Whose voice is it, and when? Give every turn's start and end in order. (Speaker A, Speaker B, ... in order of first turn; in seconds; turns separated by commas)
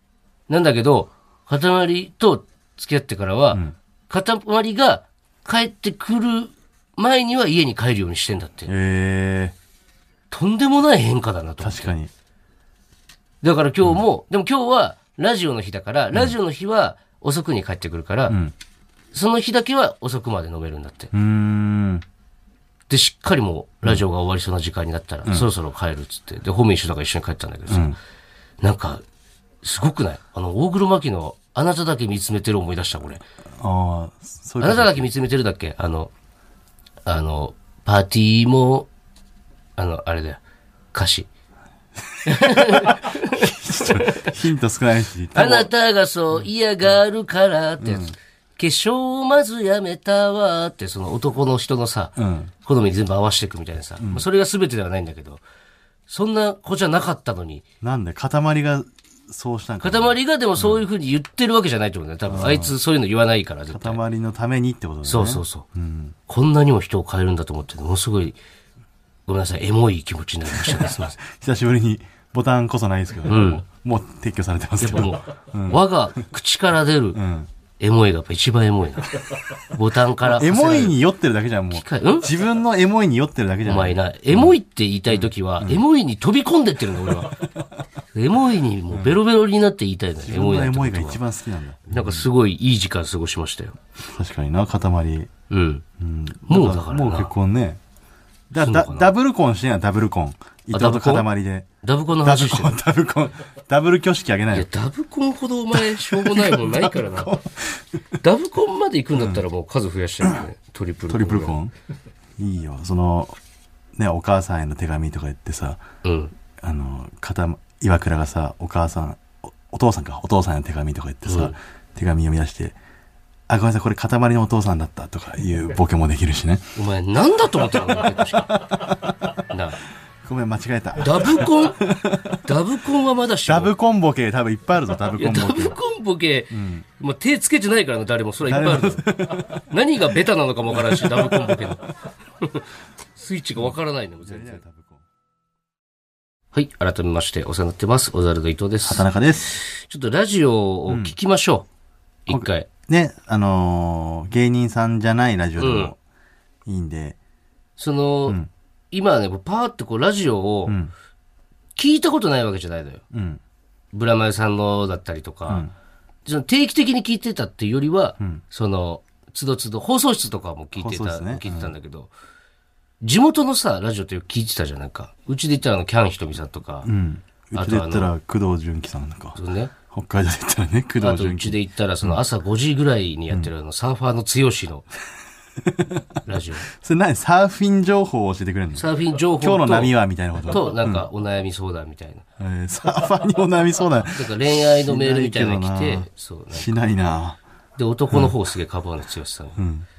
Speaker A: 0.5-8.7, Speaker B: 8.7-9.5, Speaker A: 10.3-11.9, Speaker B: 11.6-12.1, Speaker A: 13.4-18.4, Speaker B: 18.3-18.5, Speaker A: 19.1-21.1, Speaker B: 21.1-22.0, Speaker A: 22.9-28.0, Speaker B: 27.7-27.9, Speaker A: 28.6-29.0, Speaker A: 29.6-33.2, Speaker B: 33.6-35.1, Speaker A: 34.6-36.1, Speaker A: 37.0-38.9, Speaker A: 39.8-40.4, Speaker A: 40.9-41.3, Speaker A: 42.2-43.5, Speaker B: 42.2-45.7, Speaker A: 45.3-55.4, Speaker B: 47.8-48.1, Speaker B: 52.2-52.5, Speaker B: 54.0-54.2, Speaker A: 56.1-57.6, Speaker B: 57.8-60.8, Speaker A: 59.8-64.0, Speaker B: 62.3-62.7, Speaker B: 63.7-66.2, Speaker A: 65.0-65.7, Speaker A: 66.3-68.4, Speaker A: 69.3-71.2, Speaker B: 70.5-75.8, Speaker A: 73.3-73.6, Speaker A: 74.8-77.2, Speaker B: 77.1-77.5, Speaker A: 77.8-81.0, Speaker B: 80.2-84.5, Speaker A: 81.7-82.3, Speaker A: 83.7-87.4, Speaker B: 85.1-85.8, Speaker B: 87.0-87.3, Speaker A: 88.1-91.2, Speaker B: 88.9-89.2, Speaker B: 90.2-92.2, Speaker A: 91.9-93.8, Speaker B: 94.1-95.3, Speaker A: 95.5-95.8, Speaker B: 96.0-97.8, Speaker A: 96.5-97.3, Speaker B: 98.5-101.7, Speaker A: 98.6-99.1, Speaker A: 100.7-101.3, Speaker A: 101.8-102.8, Speaker B: 102.2-104.7, Speaker A: 104.5-107.3, Speaker B: 105.7-107.8, Speaker A: 108.2-111.6, Speaker B: 109.2-109.4, Speaker B: 111.1-111.7, Speaker B: 112.4-113.4, Speaker B: 114.0-115.8, Speaker A: 116.0-116.3, Speaker B: 116.6-122.8, Speaker A: 121.2-121.5, Speaker B: 123.5-126.7, Speaker A: 126.8-128.7, Speaker B: 128.5-129.1, Speaker A: 129.5-129.8, Speaker B: 130.2-132.4, Speaker A: 131.0-133.7, Speaker B: 133.4-135.8, Speaker A: 135.1-141.9, Speaker B: 136.5-136.8, Speaker B: 138.5-139.6, Speaker B: 140.9-141.3, Speaker A: 143.2-144.6, Speaker B: 143.6-145.0, Speaker A: 146.5-151.7, Speaker B: 148.8-149.6, Speaker B: 150.9-151.1, Speaker A: 152.2-152.7, Speaker B: 152.3-156.0, Speaker A: 155.6-155.9, Speaker B: 156.7-157.2, Speaker A: 157.8-158.4, Speaker A: 158.9-160.8, Speaker B: 160.7-160.9, Speaker A: 161.8-163.0, Speaker B: 163.1-163.4, Speaker A: 163.9-165.7, Speaker A: 166.2-172.1, Speaker B: 170.8-171.7, Speaker A: 173.0-176.9, Speaker B: 176.8-179.4, Speaker A: 177.5-178.1, Speaker A: 179.3-179.7, Speaker B: 179.9-182.2, Speaker A: 181.0-184.9, Speaker B: 185.6-186.0, Speaker A: 186.2-186.7, Speaker B: 186.7-191.1, Speaker A: 188.7-192.2, Speaker B: 192.4-197.4, Speaker A: 194.1-196.7, Speaker A: 197.8-199.6, Speaker B: 199.6-199.8